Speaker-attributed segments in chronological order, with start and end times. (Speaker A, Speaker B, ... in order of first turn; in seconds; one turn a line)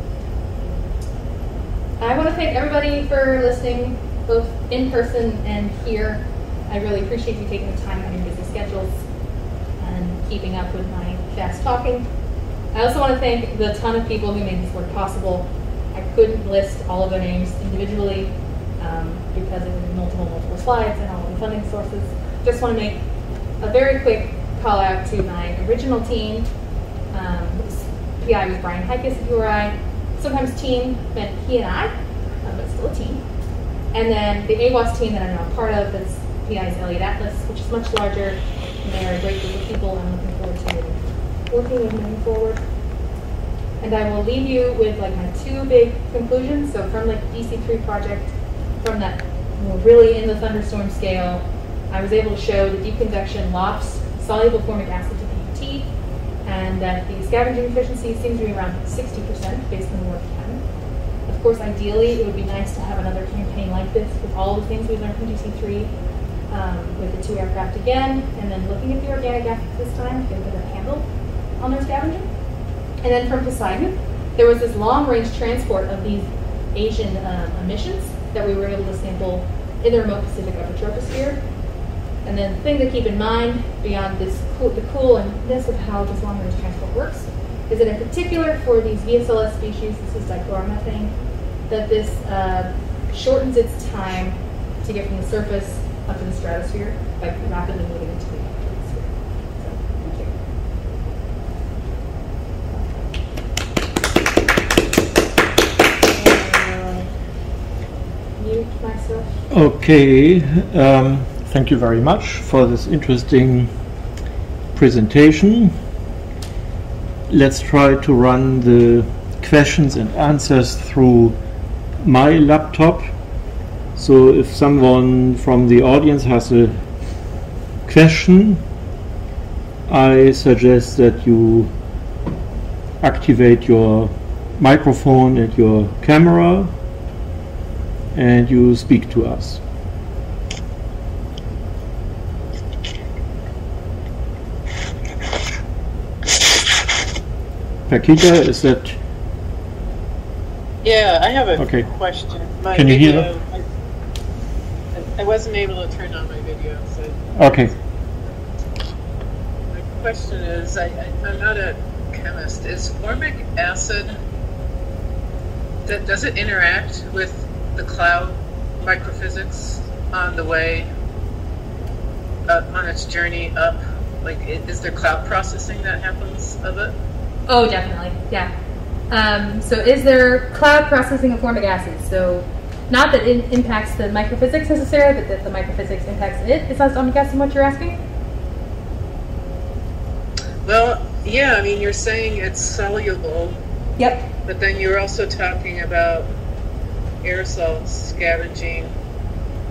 Speaker A: 2.0-9.0
Speaker A: 9.8-12.1
Speaker A: 12.7-23.0
Speaker A: 23.6-26.5
Speaker A: 27.1-31.9
Speaker A: 32.4-33.2
Speaker A: 33.9-42.6
Speaker A: 43.8-55.9
Speaker A: 56.4-60.6
Speaker A: 61.2-65.9
Speaker A: 66.5-71.0
Speaker A: 71.6-72.3
Speaker A: 73.0-81.4
Speaker A: 82.2-91.1
Speaker A: 91.7-100.3
Speaker A: 102.7-103.0
Speaker A: 106.1-107.1
Speaker A: 108.4-109.3
Speaker B: 109.5-113.7
Speaker B: 114.7-115.7
Speaker B: 117.3-121.3
Speaker B: 122.0-123.1
Speaker B: 123.9-126.8
Speaker B: 127.8-128.6
Speaker B: 129.9-131.7
Speaker B: 133.0-136.7
Speaker B: 138.1-139.6
Speaker B: 147.9-148.9
Speaker C: 150.8-153.6
Speaker B: 151.6-151.8
Speaker B: 152.7-153.3
Speaker C: 154.9-157.3
Speaker B: 157.3-157.7
Speaker C: 159.7-164.2
Speaker C: 165.8-170.9
Speaker C: 172.5-176.9
Speaker A: 177.5-178.5
Speaker A: 179.1-188.0
Speaker C: 190.6-193.5
Speaker A: 194.0-194.3
Speaker C: 194.4-196.3
Speaker C: 197.2-198.9